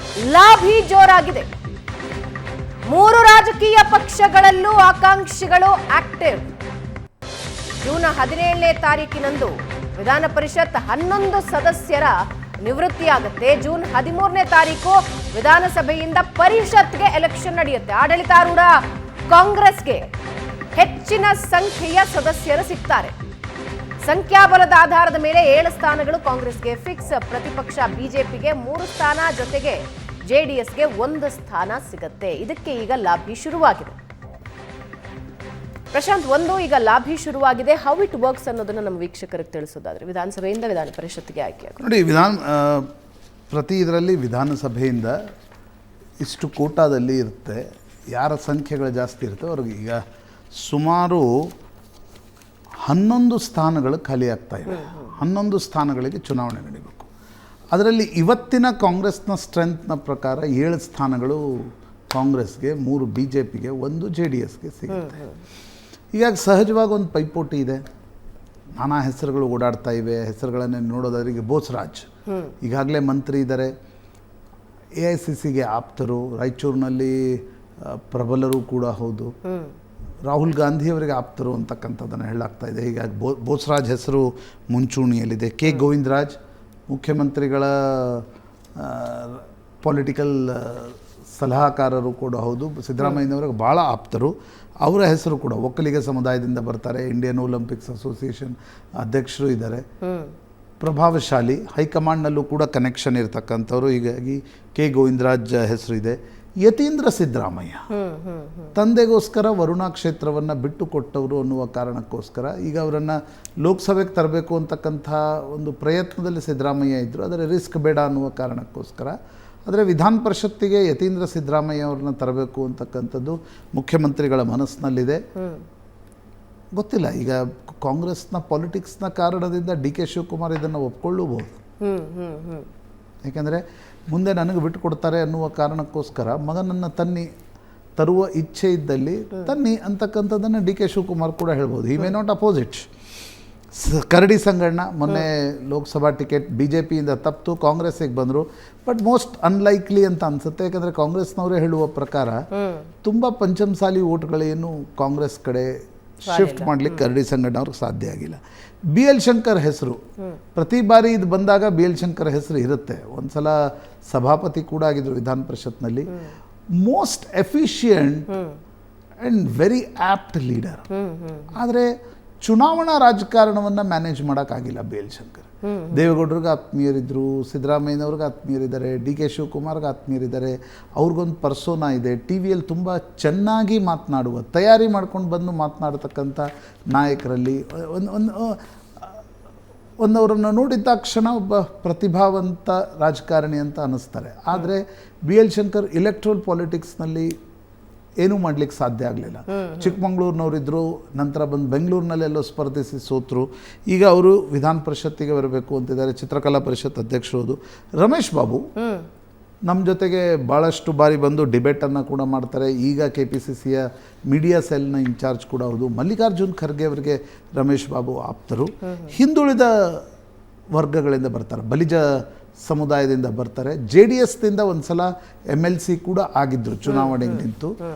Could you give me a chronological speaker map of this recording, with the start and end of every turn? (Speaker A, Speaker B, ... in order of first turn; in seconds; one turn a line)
Speaker A: 0.2-1.5
Speaker A: 2.9-6.5
Speaker A: 7.8-18.8
Speaker A: 19.3-20.1
Speaker A: 20.7-23.1
Speaker A: 24.0-34.0
Speaker A: 35.9-41.8
Speaker B: 41.8-42.9
Speaker B: 43.5-45.1
Speaker B: 46.2-50.0
Speaker B: 50.5-51.5
Speaker B: 52.8-57.1
Speaker A: 54.7-55.1
Speaker B: 57.7-65.2
Speaker A: 64.9-65.4
Speaker B: 66.1-67.8
Speaker B: 68.8-72.1
Speaker A: 72.3-72.5
Speaker B: 72.6-73.7
Speaker B: 75.0-79.3
Speaker A: 79.4-79.7
Speaker B: 80.2-86.3
Speaker B: 86.9-99.8
Speaker A: 100.0-100.3
Speaker B: 100.8-107.8
Speaker A: 107.9-108.7
Speaker B: 108.7-119.1
Speaker B: 119.7-125.2
Speaker B: 126.7-131.6
Speaker A: 131.8-132.7
Speaker B: 133.2-137.3
Speaker B: 138.0-142.9
Speaker B: 143.7-152.4
Speaker A: 152.5-152.9
Speaker B: 153.0-158.4
Speaker A: 156.2-157.0
Speaker B: 158.9-160.0
Speaker B: 160.6-166.1
Speaker B: 166.8-168.3
Speaker A: 168.3-168.6
Speaker B: 169.2-170.8
Speaker A: 170.9-171.5
Speaker B: 171.5-189.2
Speaker A: 175.6-176.1
Speaker B: 190.0-197.3
Speaker B: 198.2-208.6
Speaker A: 199.5-199.9
Speaker A: 208.8-209.1
Speaker B: 209.7-220.0
Speaker A: 218.9-219.1
Speaker B: 220.7-227.8
Speaker A: 226.9-227.4